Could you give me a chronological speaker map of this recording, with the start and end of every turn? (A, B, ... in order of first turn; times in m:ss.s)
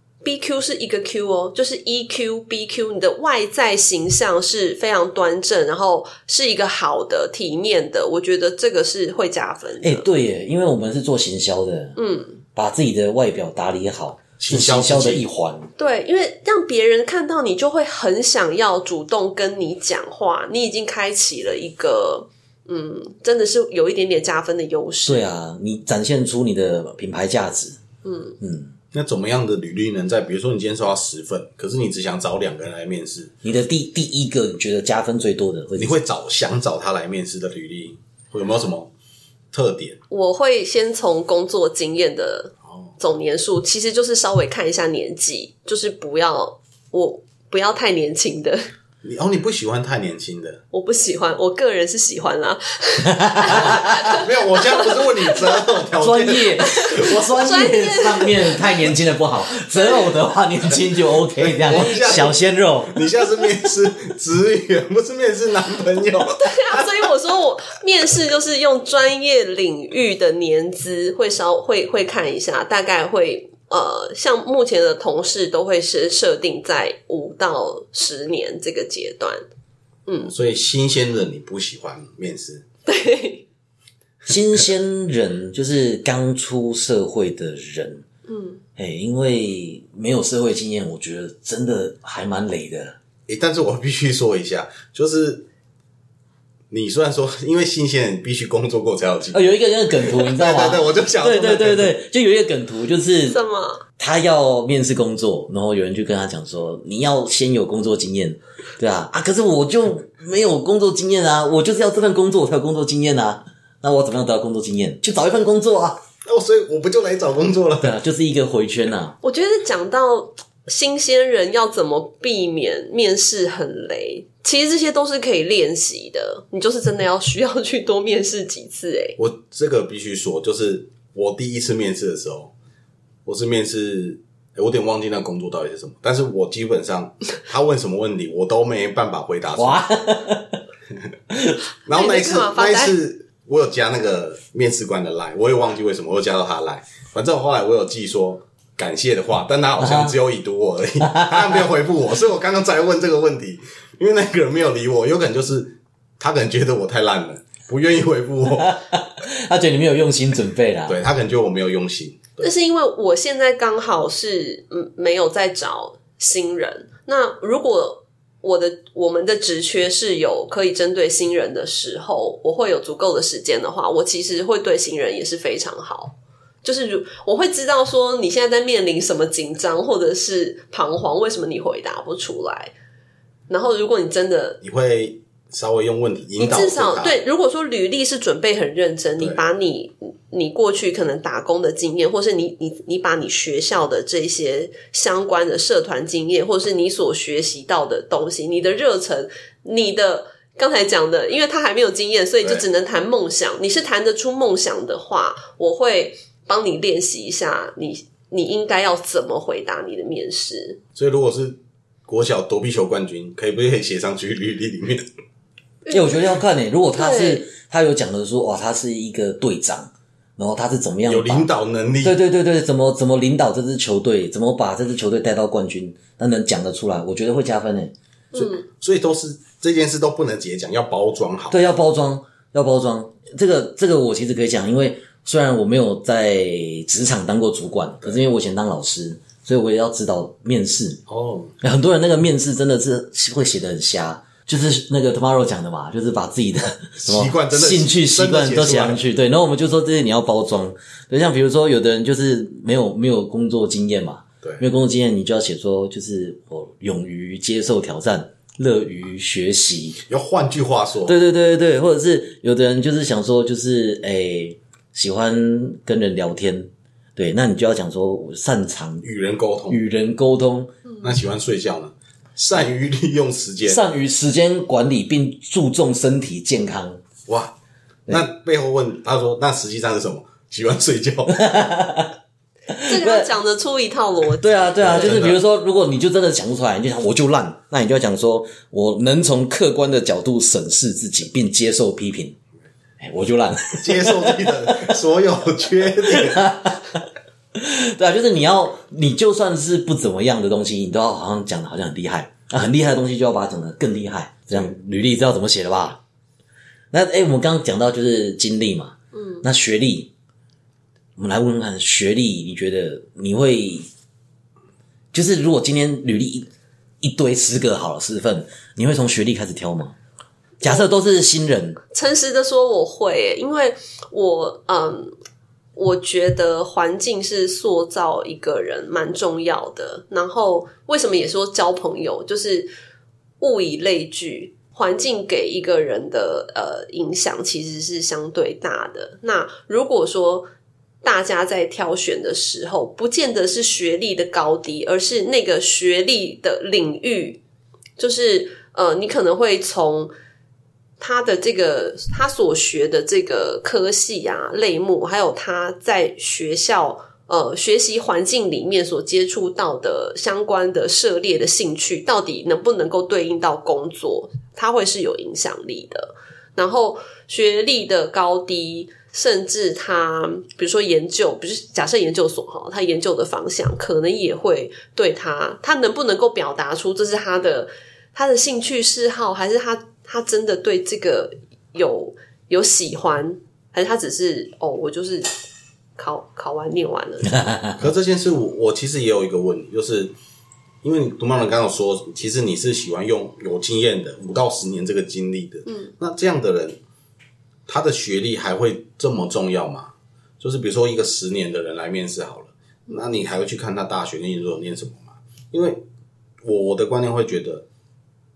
0:00.2-0:10.0 A
0:09.8-0:12.0 B
0:12.0-0:12.4 A
0:12.5-0:15.7 B
0:14.4-0:15.2 C
0:15.8-0:25.2 A
0:25.0-0:27.8 B
0:28.0-0:28.4 A
0:28.4-0:28.7 B
0:28.9-0:33.3 C
0:33.4-0:36.0 B
0:35.8-0:38.9 C
0:39.5-0:40.0 C
0:40.1-0:48.6 A
0:49.0-0:50.6 C
0:50.7-0:55.6 A
0:53.0-0:54.1 B
0:53.5-0:57.2 C
0:56.0-1:02.9 B
0:56.6-0:58.9 A
0:59.7-1:00.1 A
1:01.4-1:07.0 C
1:01.7-1:02.2 A
1:06.4-1:19.4 A
1:20.1-1:20.3 A
1:20.2-1:22.6 C
1:22.8-1:23.4 A
1:24.3-1:28.0 B
1:28.3-1:28.6 A
1:28.8-1:33.0 B
1:33.3-1:35.4 C
1:36.7-1:39.4 C
1:39.3-1:43.4 B
1:40.0-1:42.0 C
1:43.3-1:43.8 A
1:44.0-1:56.0 B
1:56.2-1:57.9 C
1:57.8-1:59.1 B
1:59.2-2:09.2 A
2:09.2-2:12.5 C
2:13.2-2:19.8 C
2:19.5-2:20.6 B
2:21.3-2:21.6 B
2:21.8-2:38.8 C
2:21.9-2:22.9 A
2:29.8-2:30.2 B
2:31.0-2:31.7 B
2:38.5-2:41.0 B
2:40.9-2:42.5 C
2:42.4-3:02.7 A
3:03.5-3:04.6 A
3:04.6-3:07.2 C
3:06.4-3:30.8 A
3:31.0-3:35.1 C
3:35.8-3:36.2 A
3:35.9-3:41.5 B
3:37.0-3:37.4 A
3:41.0-3:42.2 C
3:42.0-3:47.9 B
3:48.3-3:48.6 A
3:48.3-3:51.6 C
3:51.5-4:01.0 B
4:01.1-4:01.5 C
4:01.6-4:20.0 B
4:07.0-4:09.0 C
4:20.1-4:21.2 C
4:21.0-4:29.0 B
4:29.0-4:29.8 C
4:29.7-4:30.7 B
4:31.0-4:33.8 C
4:33.6-4:37.0 B
4:37.3-4:37.5 C
4:38.1-4:41.5 C
4:41.3-4:42.2 B
4:42.7-4:43.3 B
4:42.8-4:45.2 A
4:44.4-4:52.4 B
4:44.8-4:45.4 C
4:53.0-4:54.9 B
4:53.8-4:56.6 C
4:56.1-4:57.0 B
4:57.5-5:06.0 B
5:06.9-5:10.1 B
5:09.1-5:09.4 A
5:11.2-5:13.9 B
5:15.1-5:16.5 B
5:17.0-5:20.0 B
5:20.6-5:21.8 B
5:21.9-5:25.1 A
5:25.8-5:32.7 A
5:33.4-5:40.5 A
5:41.0-5:47.4 A
5:48.0-5:50.1 A
5:51.0-6:25.3 A
6:26.0-6:27.4 A
6:27.3-6:27.8 B
6:27.8-6:30.1 C
6:30.8-6:36.8 C
6:37.7-6:45.8 C
6:46.4-6:47.6 C